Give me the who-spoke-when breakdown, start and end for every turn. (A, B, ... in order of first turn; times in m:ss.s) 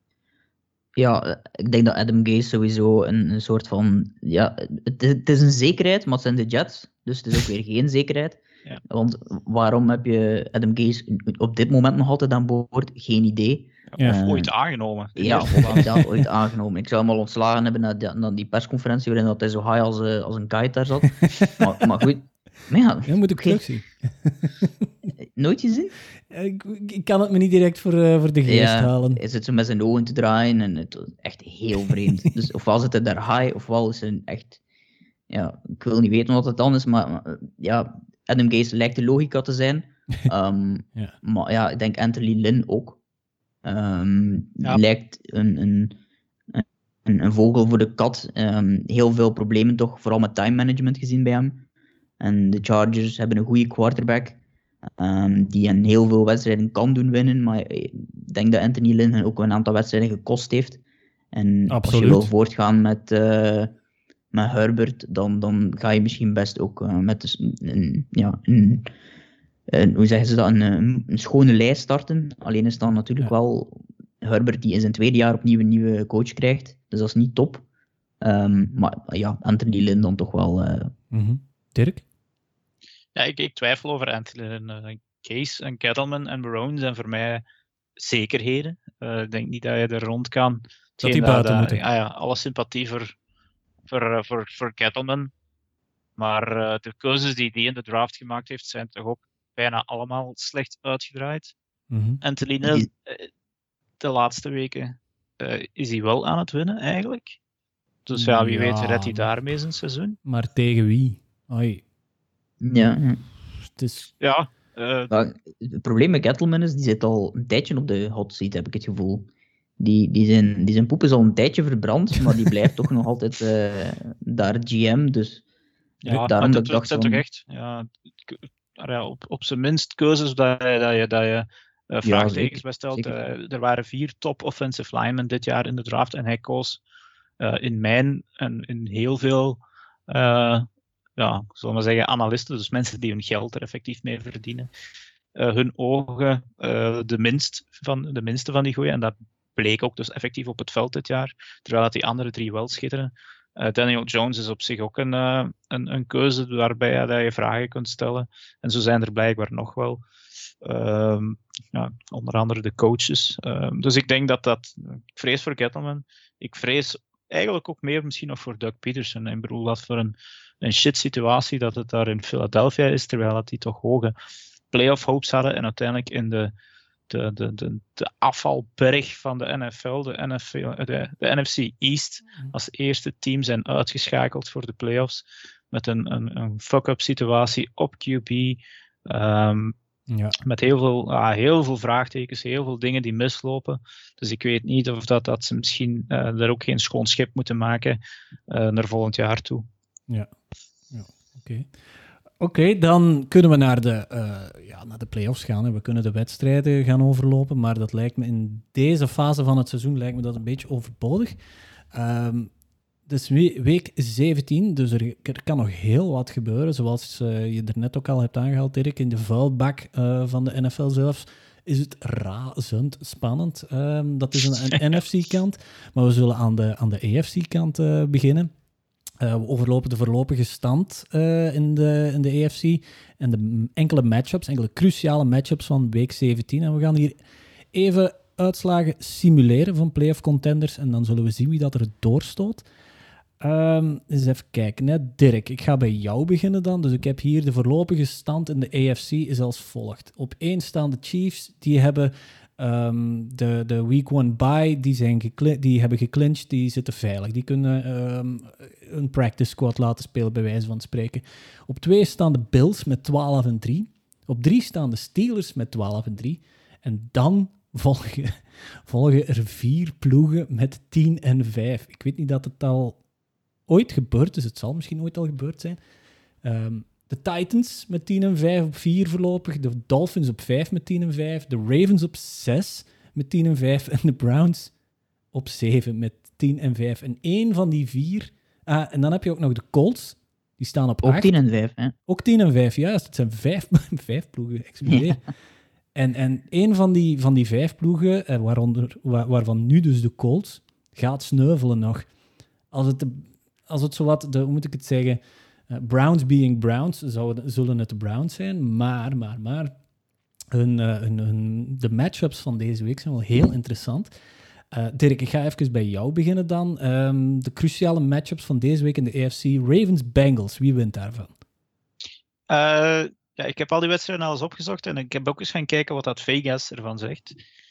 0:01.0-0:14.5 A
0:13.9-0:16.0 B
0:15.2-0:23.6 A
0:15.7-0:16.0 C
0:23.0-0:25.1 C
0:25.3-0:25.9 A
0:26.3-0:29.2 C
0:28.4-0:34.6 A
0:35.3-0:43.0 A
0:43.6-0:46.0 A
0:46.5-0:51.6 A
0:52.2-0:54.4 A
0:55.0-1:00.8 A
1:01.3-1:03.7 A
1:01.7-1:02.3 C
1:04.3-1:08.9 A
1:09.7-1:17.6 A
1:18.2-1:20.9 A
1:21.1-1:22.0 C
1:23.1-1:27.4 B
1:28.0-1:33.1 B
1:31.0-1:31.8 C
1:33.9-1:35.3 B
1:36.2-1:41.5 B
1:41.9-1:42.2 C
1:42.2-1:43.3 B
1:44.0-1:47.4 B
1:48.0-1:50.2 B
1:48.1-1:49.3 C
1:50.2-1:51.8 C
1:52.6-1:53.2 A
1:53.7-1:54.1 C
1:54.2-1:55.1 B
1:55.1-1:59.3 A
1:59.8-2:05.4 A
2:06.0-2:16.8 B
2:06.1-2:07.2 A
2:12.0-2:13.1 A
2:17.4-2:24.7 B
2:25.4-2:40.0 B
2:40.6-2:54.1 B
2:54.7-2:56.5 B
2:57.1-3:09.7 B
3:10.1-3:10.4 C
3:10.4-3:19.6 B
3:20.9-3:21.7 C
3:22.4-3:31.4 C
3:31.9-3:32.5 C
3:33.1-3:48.5 C
3:49.2-3:57.2 C
3:57.7-4:02.6 C
4:03.4-4:33.0 C
4:33.7-4:35.8 C
4:36.4-4:44.7 C
4:45.3-4:51.3 C
4:51.0-4:51.9 A
4:52.1-4:55.2 C
4:55.9-5:02.1 C
5:02.7-5:09.7 C
5:10.5-5:14.1 C
5:14.7-5:21.3 C
5:22.5-5:27.4 B